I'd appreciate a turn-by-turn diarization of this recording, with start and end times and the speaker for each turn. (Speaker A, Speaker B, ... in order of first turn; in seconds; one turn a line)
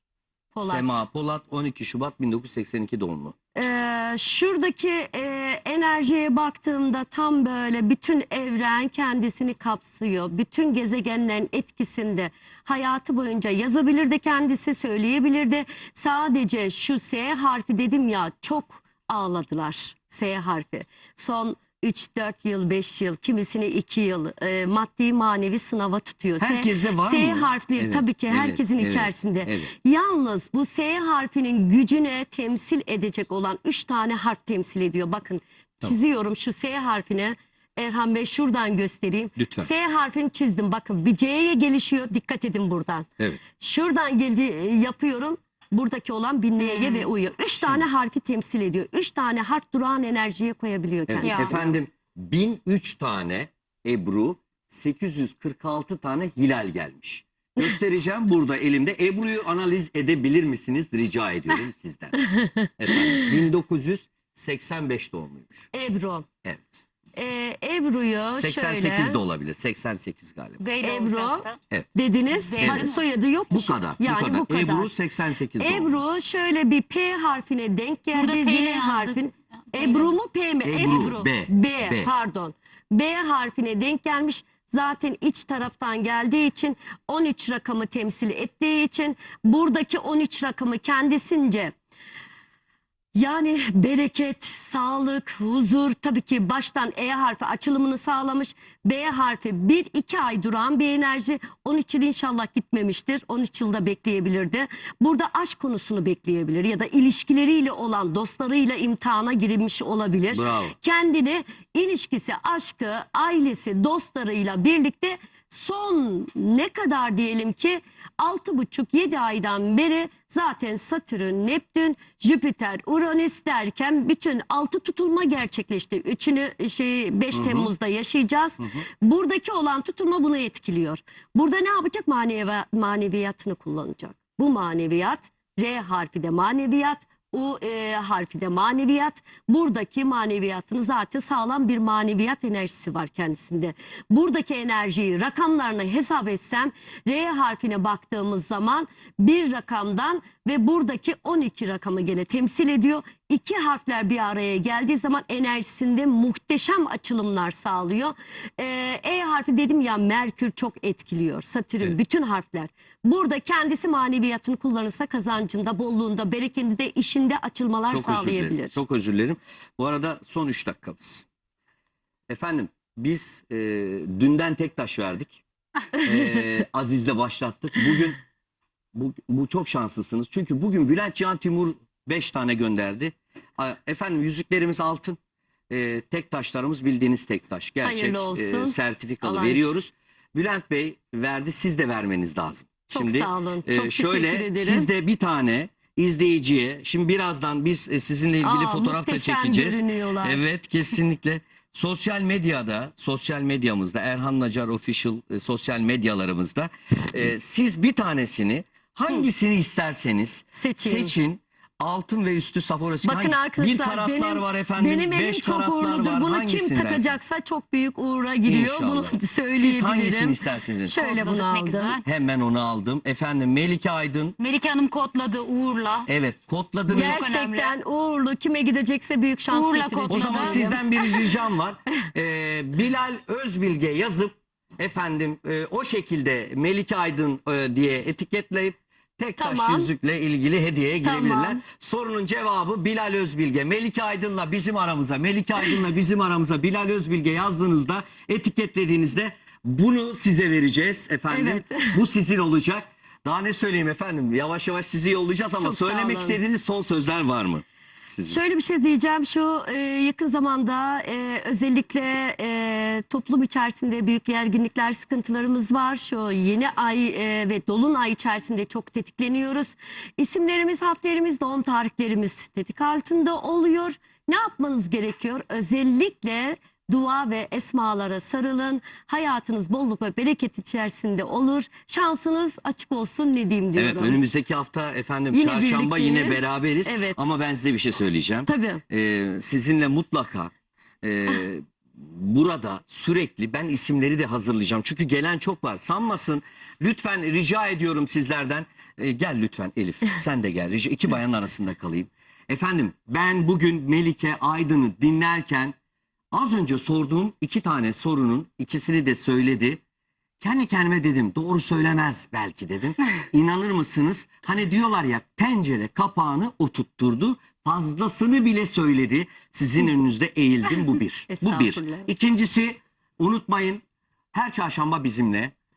Speaker A: 0.6-1.0
Speaker B: 0.7-3.4
Speaker A: 3.6-51.8
Speaker B: 26.4-29.7
Speaker B: 39.4-39.7
Speaker C: 46.6-47.1
Speaker B: 51.1-62.2
Speaker C: 51.2-51.6
Speaker A: 62.2-63.2
Speaker B: 62.8-65.7
Speaker A: 65.7-66.3
Speaker B: 66.4-66.8
Speaker A: 67.2-69.2
Speaker B: 68.3-70.6
Speaker C: 70.6-71.6
Speaker A: 70.8-74.9
Speaker C: 72.3-73.0
Speaker B: 72.6-72.9
Speaker B: 73.5-76.0
Speaker A: 75.6-91.8
Speaker C: 78.1-80.2
Speaker B: 80.6-82.1
Speaker C: 80.8-81.3
Speaker A: 93.1-168.8
Speaker B: 110.3-110.8
Speaker B: 127.3-127.7
Speaker B: 167.9-171.2
Speaker B: 172.3-175.4
Speaker B: 175.9-178.2
Speaker B: 178.9-185.2
Speaker B: 185.7-217.2
Speaker A: 187.8-189.8
Speaker A: 192.9-194.9
Speaker A: 198.4-200.4
Speaker A: 210.6-211.2
Speaker A: 213.0-222.0
Speaker B: 218.5-221.0
Speaker C: 220.9-222.1
Speaker B: 222.0-224.4
Speaker C: 224.4-226.1
Speaker B: 226.1-227.3
Speaker C: 226.9-227.8
Speaker A: 226.9-231.2
Speaker C: 229.5-230.7
Speaker B: 230.1-258.4
Speaker A: 239.4-239.9
Speaker A: 241.0-241.6
Speaker A: 251.3-252.0
Speaker A: 255.6-256.4
Speaker A: 258.2-284.2
Speaker B: 283.8-305.8
Speaker A: 285.3-287.3
Speaker A: 288.5-288.8
Speaker B: 306.3-309.8
Speaker B: 310.4-325.5
Speaker A: 321.3-322.1